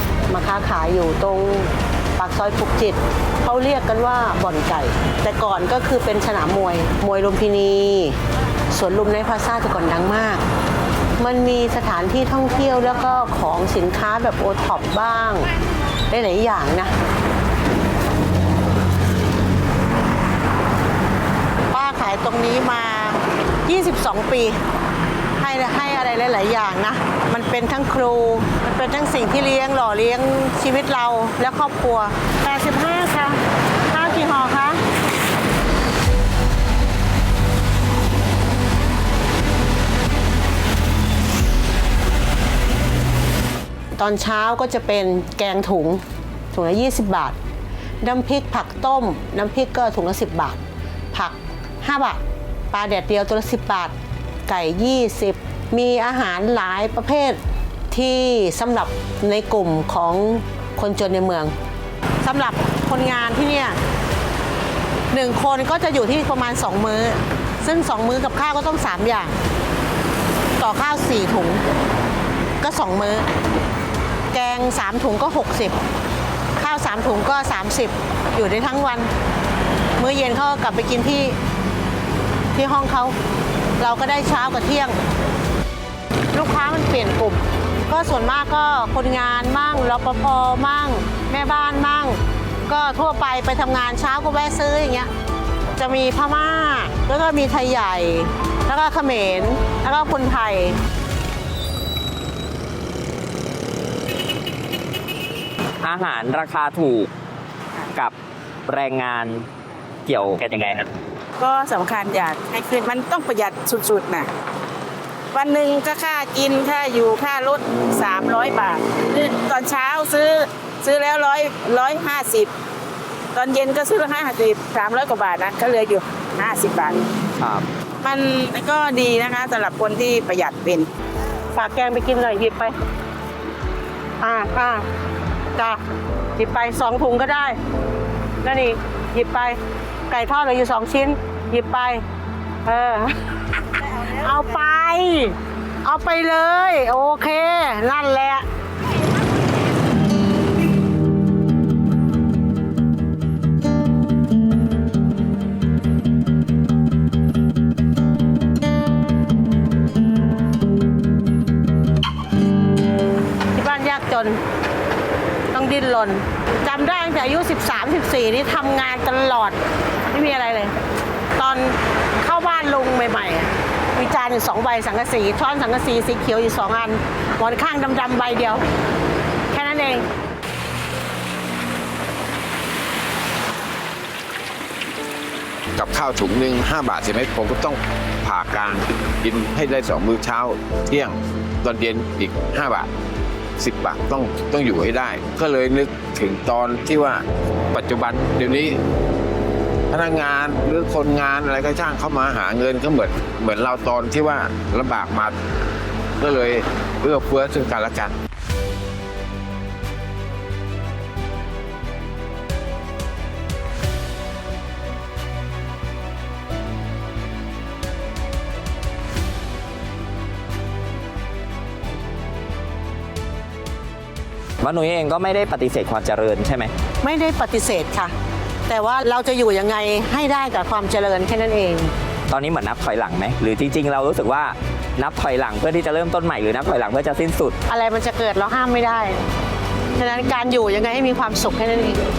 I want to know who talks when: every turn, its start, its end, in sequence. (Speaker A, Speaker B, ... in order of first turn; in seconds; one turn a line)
Speaker A: 0.3-8.2
Speaker A: 8.7-10.4
Speaker A: 11.2-15.5
Speaker A: 16.1-16.9
Speaker A: 21.7-24.6
Speaker A: 25.4-34.8
Speaker A: 44.0-47.4
Speaker A: 48.0-50.6
Speaker A: 51.1-54.0
Speaker A: 54.5-57.4
Speaker A: 57.9-61.5
Speaker A: 62.2-63.8
Speaker A: 65.1-69.4
Speaker A: 70.6-71.6
Speaker A: 72.6-73.3
Speaker A: 74.3-75.8
Speaker A: 76.6-79.1
Speaker A: 80.0-81.4
Speaker A: 82.5-83.2
Speaker A: 83.8-85.0
Speaker A: 86.3-95.1
Speaker A: 95.8-100.8
Speaker B: 105.8-107.1
Speaker B: 108.7-109.5
Speaker B: 110.1-110.9
Speaker C: 111.4-114.3
Speaker C: 115.3-122.5
Speaker C: 123.3-127.0
Speaker B: 127.4-127.7
Speaker C: 128.0-130.9
Speaker A: 131.5-132.7
Speaker A: 134.2-134.8
Speaker A: 136.4-137.6
Speaker A: 138.4-139.6
Speaker A: 140.1-142.0
Speaker A: 142.7-143.2
Speaker A: 143.9-148.4
Speaker A: 163.5-164.4
Speaker A: 165.5-169.6
Speaker A: 170.1-170.7
Speaker A: 171.4-178.7
Speaker A: 179.5-180.1
Speaker D: 185.8-192.9
Speaker D: 193.6-198.8
Speaker D: 199.9-205.3
Speaker D: 206.2-208.2
Speaker B: 224.6-226.7
Speaker A: 227.0-228.1
Speaker A: 228.7-231.9
Speaker B: 232.3-237.6
Speaker A: 237.7-239.2
Speaker A: 240.0-242.0